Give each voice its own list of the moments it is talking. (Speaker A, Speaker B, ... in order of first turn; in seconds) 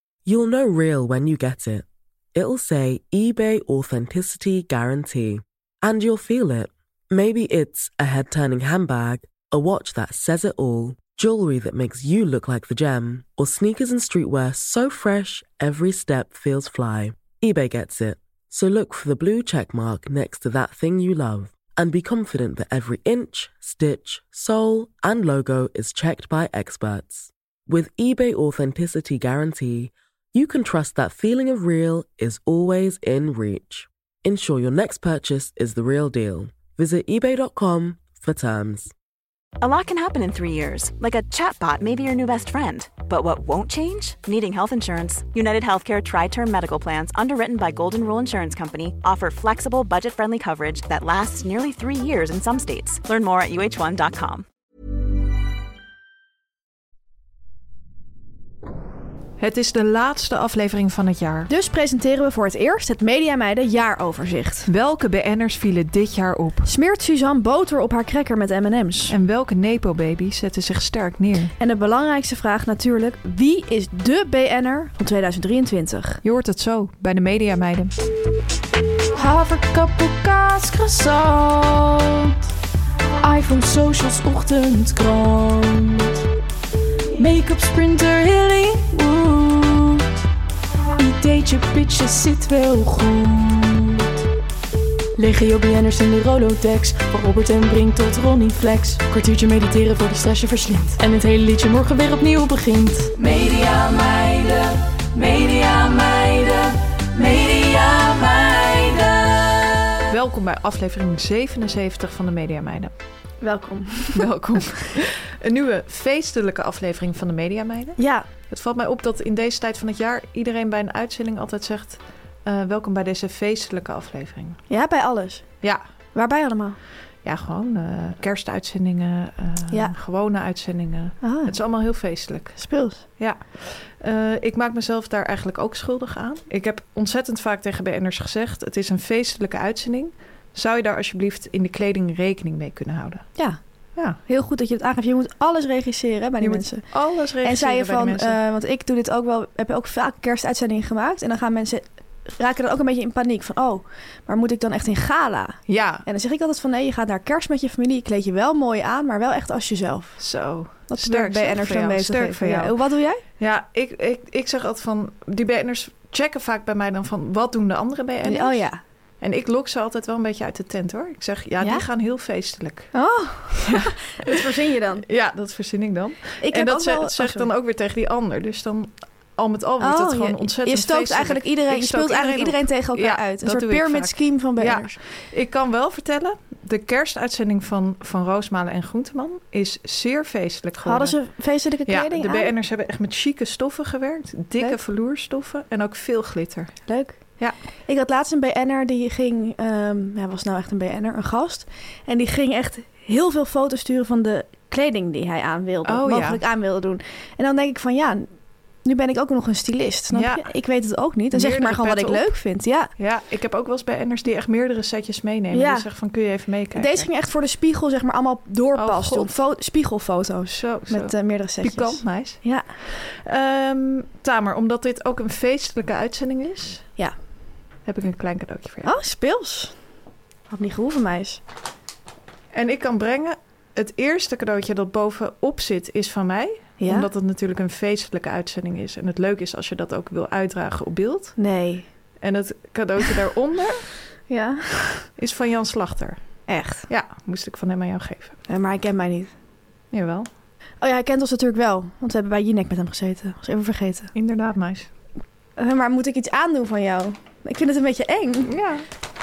Speaker A: 0.2-38.9
Speaker B: 39.6-54.5
Speaker C: 59.4-61.5, 64.7-66.7, 69.1-71.5, 76.2-77.9, 110.1-112.9, 114.1-124.6, 127.2-132.6, 133.2-143.3, 146.4-148.4, 155.7-156.0, 160.2-162.7, 163.4-168.6, 169.2-172.9, 173.6-174.4, 175.0-191.2, 191.9-196.7, 205.8-206.4, 210.1-210.4, 211.3-212.2, 213.0-217.1, 218.7-219.3, 220.5-226.8, 227.8-228.9, 232.5-241.3, 242.2-243.9, 245.2-246.2, 246.9-248.4, 249.9-250.3, 254.1-254.9, 258.5-258.8
Speaker D: 61.5-64.7, 66.7-69.2, 71.6-76.2, 95.2-96.1, 97.2-98.0, 98.6-103.1, 113.4-114.2, 118.0-118.2, 124.7-125.4, 126.1-126.8, 131.2-131.5, 132.6-133.0, 144.2-146.8, 147.4-160.2, 160.9-163.2, 168.2-168.8, 172.9-175.0, 176.4-177.5, 179.8-184.9, 190.8-192.5, 196.9-197.2, 197.9-208.3, 208.8-212.9, 215.5-215.8, 216.7-222.7, 228.8-229.7, 230.5-231.4, 236.8-237.1, 241.4-241.8, 244.3-245.1, 246.5-246.9, 248.5-249.3, 250.8-254.1, 255.6-258.5
Speaker E: 79.2-82.1, 83.2-86.1, 87.2-89.0, 92.3-94.0, 96.7-97.0, 103.1-109.6